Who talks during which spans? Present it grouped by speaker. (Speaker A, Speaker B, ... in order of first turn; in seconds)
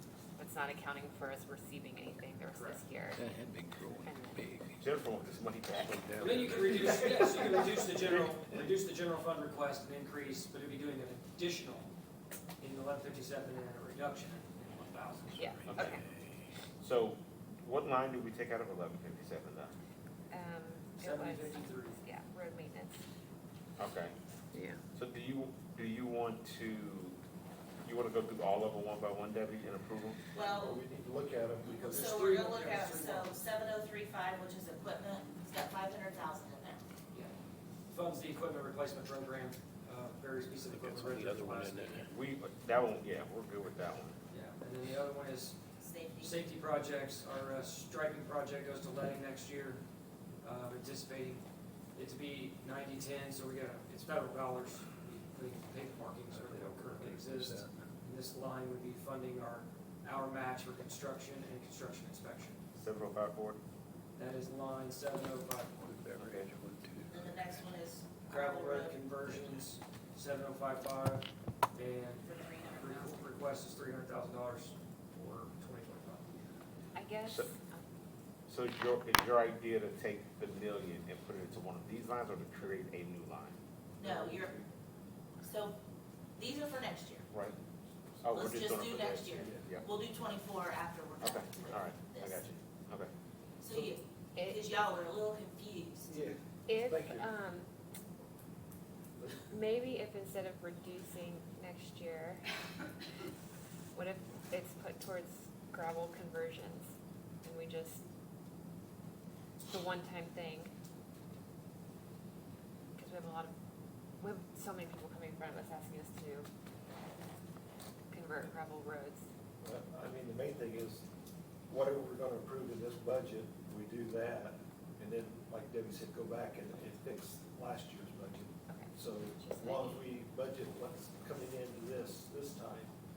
Speaker A: 0.4-3.2, 4.0-4.4, 15.4-16.0, 20.3-23.0, 77.0-77.8, 94.4-94.6, 96.7-97.7, 99.5-102.5, 104.0-106.9, 107.4-108.0, 109.7-110.7, 113.0-113.5, 114.2-116.5, 118.1-119.2, 128.7-130.0
Speaker B: 2.5-2.8, 6.2-11.9, 12.6-15.8, 21.0-22.0, 31.9-33.4, 37.9-42.1, 44.3-45.6, 46.2-49.8, 50.4-51.4, 52.0-62.6, 64.2-66.4, 68.3-76.3
Speaker C: 3.2-4.8, 5.8-7.4, 40.7-42.1, 56.3-57.8, 65.8-67.4
Speaker D: 4.8-6.5, 15.7-16.0, 16.8-19.8, 23.8-24.1, 24.9-27.2, 27.8-30.2, 42.1-44.2, 62.8-63.6, 78.5-83.6, 88.2-89.9, 91.2-93.1
Speaker E: 30.3-30.8, 31.7-36.8, 45.8-46.4, 67.1-69.0, 72.2-73.2, 84.0-84.5, 85.4-85.8, 86.4-87.3, 88.3-92.5, 93.6-96.1
Speaker F: 30.5-32.3, 84.0-84.7, 89.4-89.6, 96.1-97.3, 99.2-99.4, 119.6-121.0, 121.7-132.9